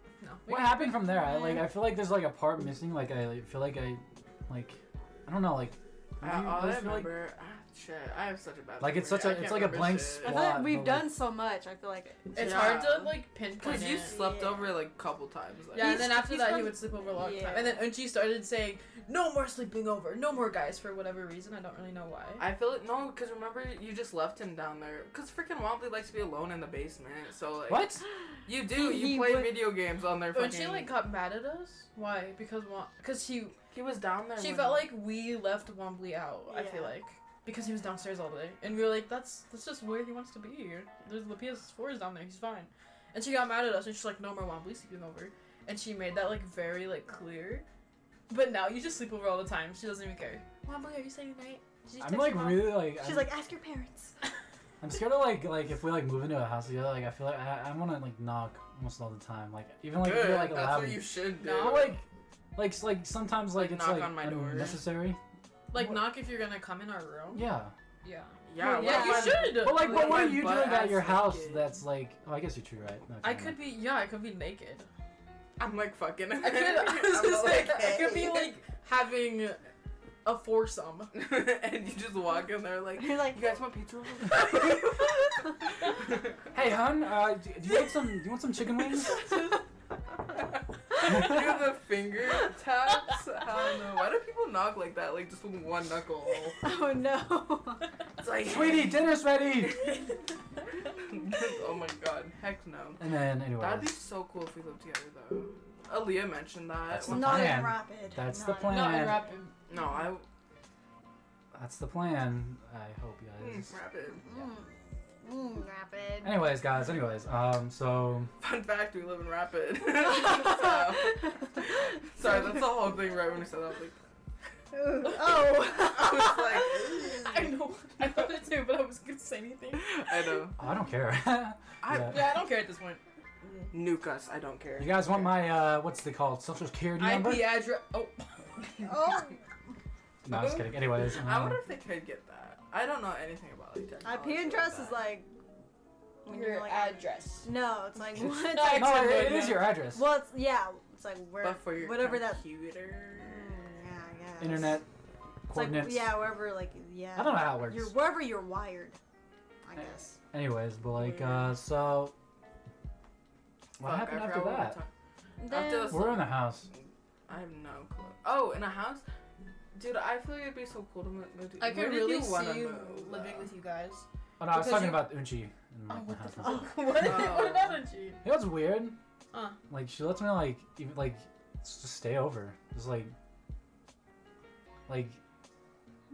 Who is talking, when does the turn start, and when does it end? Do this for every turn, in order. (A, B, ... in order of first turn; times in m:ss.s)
0:00.2-0:01.0 A
0:00.5-0:07.1 B
0:01.1-0:01.7 C
0:06.2-0:10.4 D
0:08.8-0:11.2 B
0:09.1-0:09.8 A
0:10.2-0:12.7 C
0:12.3-0:14.4 A
0:12.3-0:16.0 D
0:14.0-0:14.7 C
0:15.7-0:22.5 A
0:15.7-0:17.9 C
0:22.4-0:27.9 D
0:27.7-0:28.0 B
0:28.4-0:31.0 D
0:28.6-0:29.7 C
0:30.3-0:33.6 A
0:33.7-0:35.0 D
0:34.4-0:47.6 A
0:36.5-0:37.0 C
0:48.3-0:52.6 A
0:52.0-0:53.3 B
0:52.6-0:54.1 C
0:54.8-1:05.2 B
1:00.0-1:02.0 D
1:01.4-1:02.0 A
1:03.6-1:04.8 D
1:05.7-1:07.4 A
1:05.7-1:06.1 B
1:07.3-1:07.7 B
1:08.0-1:11.0 A
1:08.4-1:11.7 D
1:08.6-1:09.5 C
1:09.4-1:13.6 B
1:13.2-1:14.9 A
1:15.6-1:18.6 D
1:16.3-1:19.6 A
1:20.2-1:21.1 A
1:21.1-1:25.2 D
1:23.0-1:23.5 C
1:24.3-1:24.9 A
1:26.5-1:29.3 B
1:29.1-1:29.6 A
1:31.0-1:31.4 A
1:31.0-1:36.6 D
1:36.6-1:37.8 C
1:38.2-1:39.0 D
1:38.4-1:39.9 B
1:38.6-1:38.9 A
1:41.0-1:43.0 D
1:43.0-1:44.0 B
1:43.6-1:47.4 D
1:46.9-1:49.3 B
1:47.0-1:49.1 C
1:48.6-1:49.6 A
1:49.7-1:50.2 D
1:51.5-1:53.7 B
1:53.4-1:54.2 D
1:54.2-1:56.4 C
1:56.2-1:58.3 B
1:58.4-2:04.0 D
2:00.2-2:00.8 A
2:02.3-2:02.6 A
2:04.7-2:06.7 C
2:05.6-2:10.5 A
2:05.8-2:07.4 D
2:09.9-2:10.6 D
2:10.6-2:12.3 B
2:11.8-2:12.5 D
2:12.0-2:13.0 A
2:13.7-2:15.4 D
2:14.8-2:17.6 B
2:17.0-2:18.8 A
2:18.8-2:19.4 C
2:20.2-2:21.6 B
2:20.3-2:25.0 D
2:24.0-2:25.3 C
2:26.2-2:32.4 C
2:26.3-2:27.5 A
2:28.2-2:29.8 A
2:28.6-2:30.1 B
2:31.4-2:33.5 D
2:33.1-2:34.8 C
2:34.4-2:34.9 B
2:35.5-2:36.3 B
2:35.5-2:39.0 C
2:37.2-2:37.9 B
2:39.6-2:40.2 C
2:40.3-2:42.1 B
2:43.8-2:44.8 B
2:43.8-2:44.9 D
2:45.4-2:46.1 C
2:45.5-2:49.0 D
2:45.9-2:46.7 B
2:49.7-2:53.5 D
2:51.6-2:55.2 A
2:54.4-2:56.8 B
2:55.9-2:58.2 A
2:56.8-2:57.8 D
2:58.2-2:59.0 B
2:59.3-2:59.6 A
2:59.7-3:03.1 B
3:04.9-3:05.2 B